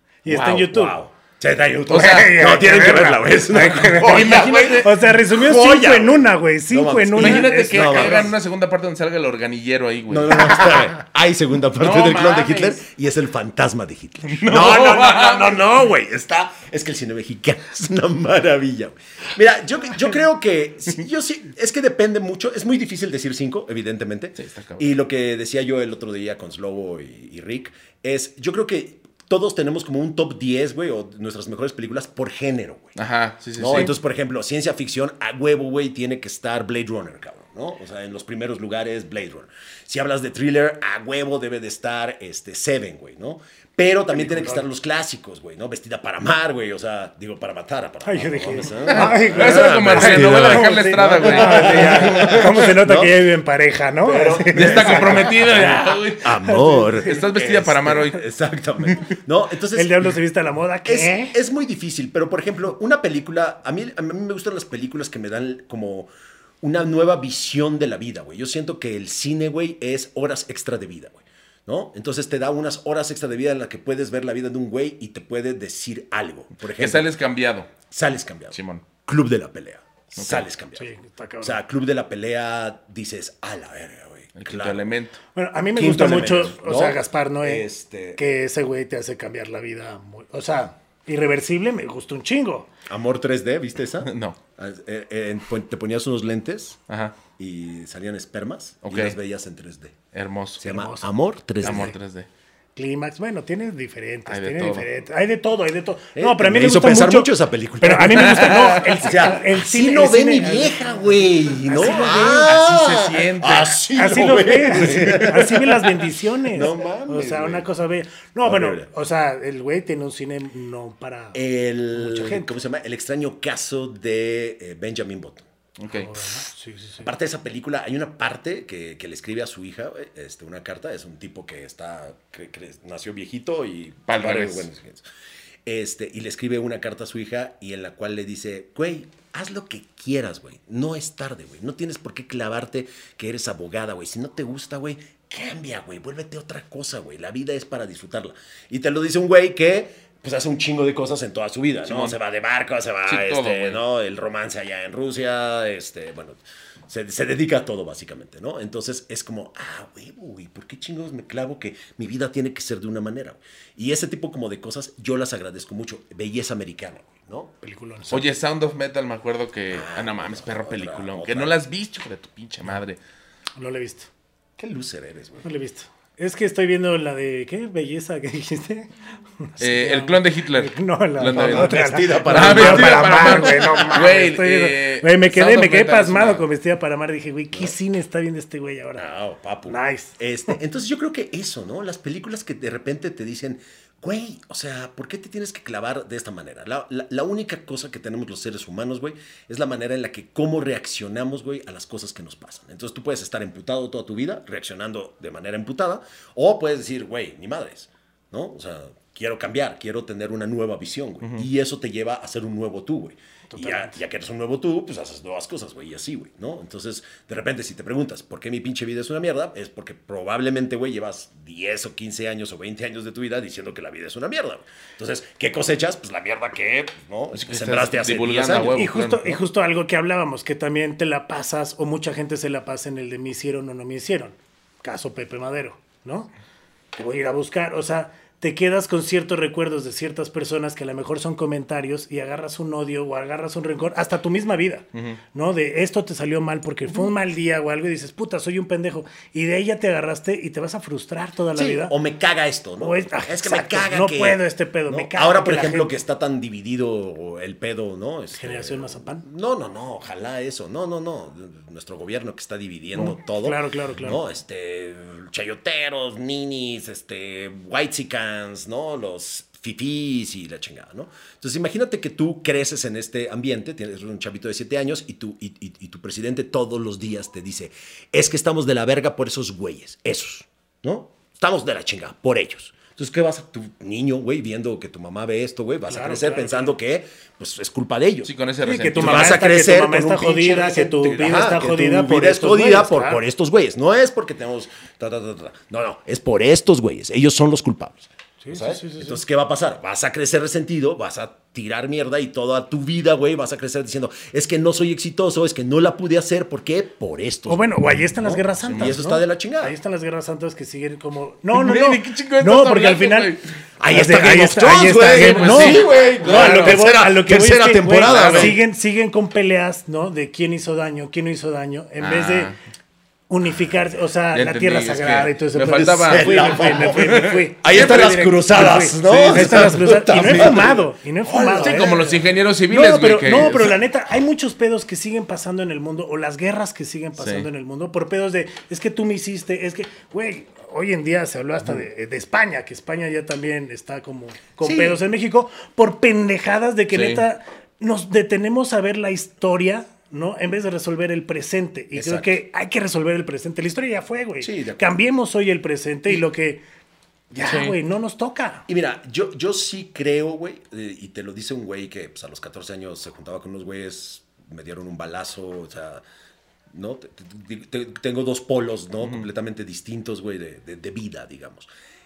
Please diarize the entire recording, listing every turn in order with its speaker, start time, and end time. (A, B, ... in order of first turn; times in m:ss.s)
0:00.2-0:01.0 A
0:00.3-0:08.3 B
0:01.9-0:08.3 A
0:01.9-0:02.3 C
0:04.0-0:04.9 C
0:07.2-0:10.8 C
0:10.1-0:32.9 B
0:11.8-0:12.8 C
0:14.3-0:15.6 C
0:24.4-0:24.8 C
0:33.0-0:33.9 C
0:33.6-0:53.2 B
0:44.1-0:44.6 A
0:48.0-0:55.3 A
0:48.9-0:52.5 C
0:54.0-1:00.1 B
0:54.5-0:58.2 C
0:56.4-0:56.8 A
0:58.8-0:59.1 C
0:59.7-1:01.3 A
1:00.8-1:17.1 B
1:16.7-1:17.7 C
1:17.9-1:20.9 B
1:18.5-1:18.8 C
1:20.2-1:20.5 C
1:20.8-1:21.6 A
1:21.4-1:24.8 B
1:24.4-1:25.2 C
1:25.3-1:32.7 A
1:25.8-1:28.2 B
1:32.9-1:36.8 B
1:34.0-1:34.4 C
1:36.9-1:37.2 C
1:37.4-1:40.0 B
1:38.8-1:39.2 C
1:40.1-1:40.8 C
1:40.6-1:41.9 B
1:40.6-1:41.1 A
1:41.6-1:42.3 C
1:41.6-1:42.0 A
1:42.8-1:52.5 A
1:44.3-1:44.8 C
1:46.1-1:57.7 B
1:48.1-1:48.9 C
1:51.9-1:53.8 C
1:53.9-2:01.4 A
1:58.4-1:58.9 B
2:01.3-2:05.5 B
2:01.9-2:02.5 A
2:05.8-2:06.1 C
2:05.9-2:07.1 A
2:07.0-2:15.0 B
2:14.1-2:14.7 C
2:15.6-2:47.5 B
2:31.9-2:32.2 C
2:33.1-2:33.8 C
2:47.6-2:48.2 A
2:48.1-2:53.0 C
2:49.7-2:51.5 B
2:53.6-2:54.1 A
2:54.6-2:55.5 B
2:55.4-2:58.9 A
2:59.4-3:09.0 A
2:59.6-3:06.4 C
3:01.3-3:04.2 B
3:09.0-3:48.8 B
3:09.7-3:10.5 A
3:33.5-3:34.0 A
3:47.4-3:49.4 C
3:48.7-3:56.3 A
3:56.9-4:11.9 A
4:11.5-4:48.3 B
4:12.8-4:15.9 A
4:18.3-4:19.2 A
4:22.9-4:24.2 A
4:45.9-4:46.8 A
4:48.2-4:49.4 C
4:48.6-4:53.2 A
4:48.9-5:09.8 B
4:58.4-4:59.2 A
5:07.5-5:22.5 A
5:08.6-5:09.0 C
5:11.5-5:13.4 C
5:13.8-5:18.6 B
5:15.0-5:16.8 C
5:18.0-5:18.6 C
5:22.0-5:22.5 C
5:23.3-5:56.6 A
5:24.3-5:28.1 C
5:25.7-5:32.3 B
5:28.9-5:29.7 C
5:31.6-5:33.8 C
5:37.1-5:37.5 C
5:44.6-5:45.0 B
5:46.9-5:47.2 C
5:51.9-5:52.3 B
5:54.4-5:55.0 B
5:57.3-5:58.6 A
5:57.4-5:57.7 C
5:58.7-6:06.0 B
6:06.7-6:11.7 B